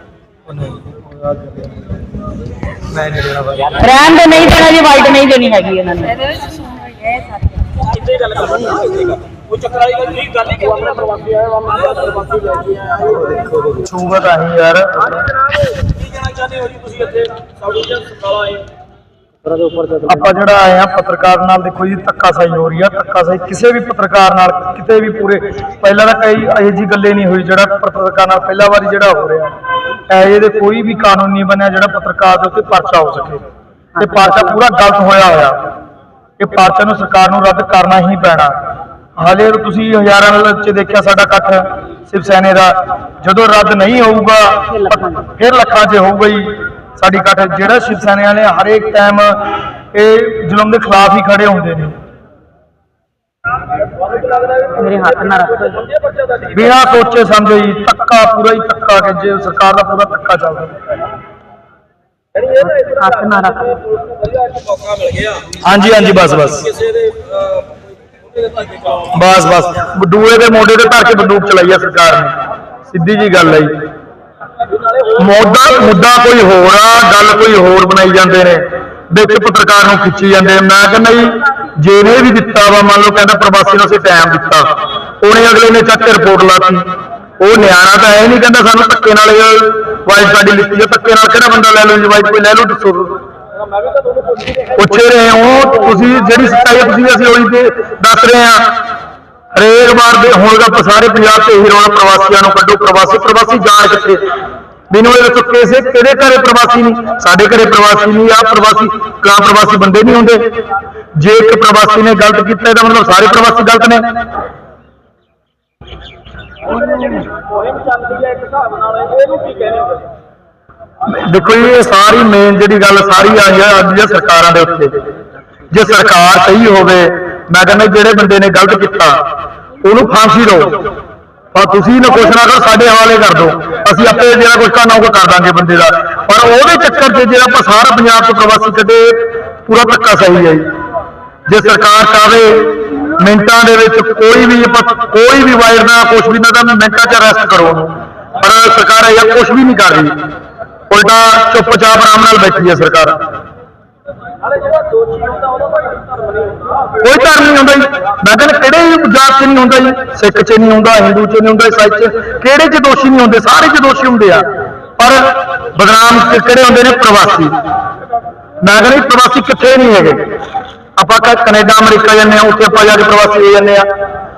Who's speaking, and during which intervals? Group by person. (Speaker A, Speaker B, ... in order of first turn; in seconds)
Speaker A: 0.5-1.7, 2.9-3.8, 13.6-15.2, 20.0-29.5, 30.1-33.4, 34.0-35.6, 36.4-38.6, 39.2-52.0, 56.5-60.8, 65.6-66.8, 69.1-73.8, 75.1-84.7, 85.2-86.9, 87.4-93.2, 94.7-98.8, 99.5-104.2, 104.9-110.6, 111.1-114.2, 121.1-125.0, 125.7-129.2, 129.8-130.9, 131.5-140.7, 141.5-150.2, 150.9-153.2, 157.0-164.5, 165.0-167.6, 168.6-170.3, 171.0-173.9
Speaker B: 3.7-7.3, 19.5-20.0, 34.0-34.6, 44.8-45.1, 54.8-55.9, 62.5-63.8, 116.8-117.3
Speaker C: 16.5-18.6, 119.1-119.8